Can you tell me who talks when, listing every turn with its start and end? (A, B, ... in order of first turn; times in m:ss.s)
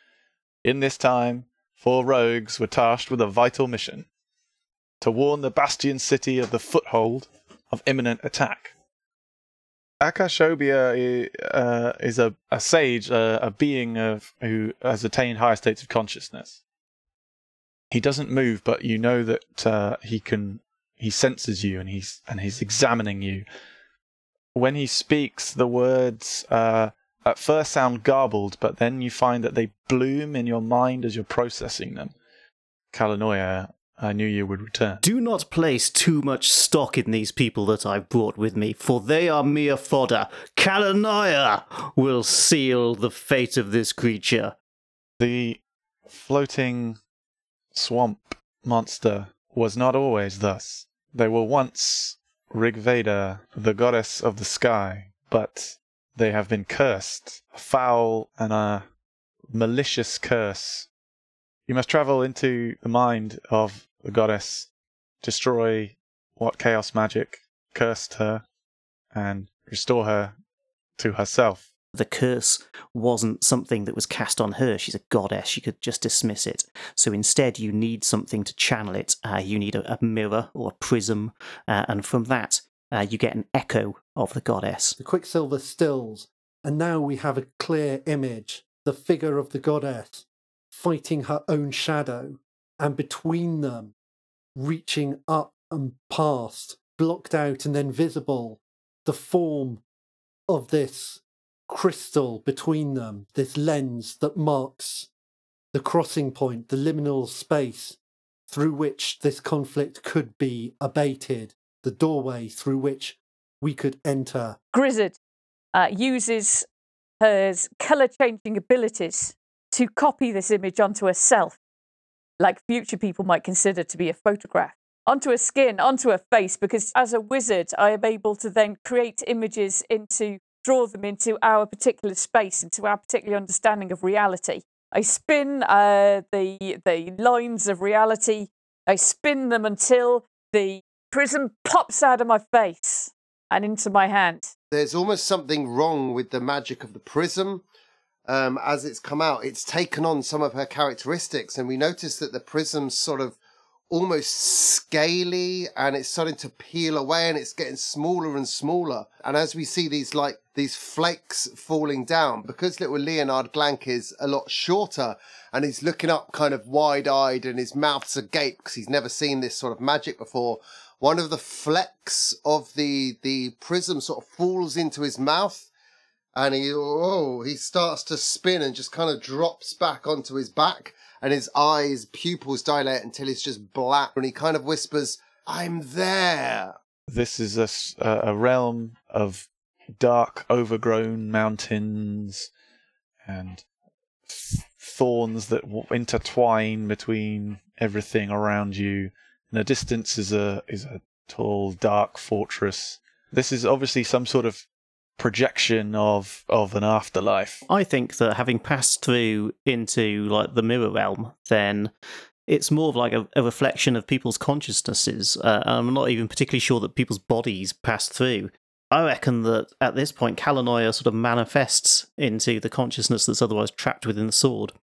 0:00.6-0:04.1 A
0:05.0-0:08.7 A
0:10.0-0:16.6 A
0:17.9-0:23.4 A
0:24.5-0:32.1 A
0:32.9-0:35.0 A
0:35.0-0:44.6 B
0:45.2-0:47.0 A
0:47.7-0:58.8 A
0:59.5-1:00.9 A
1:01.7-1:04.7 A
1:05.2-1:08.4 A
1:09.1-1:10.4 A
1:11.0-1:11.6 A
1:11.9-1:25.0 B
1:25.0-1:33.9 C
1:34.6-1:39.8 C
1:40.5-1:45.1 C
1:45.7-1:48.0 C
1:48.5-1:54.6 C
1:54.7-1:55.2 D
1:55.7-1:56.7 D
1:57.2-2:01.6 D
2:02.4-2:24.5 D
2:24.7-2:27.6 E
2:28.3-2:33.4 E
2:33.9-2:55.7 E
2:56.3-3:06.8 E
3:07.1-3:12.5 A
3:13.2-3:13.6 A
3:14.3-3:24.6 A
3:25.2-3:27.6 A
3:27.7-3:31.9 B
3:32.5-3:44.8 B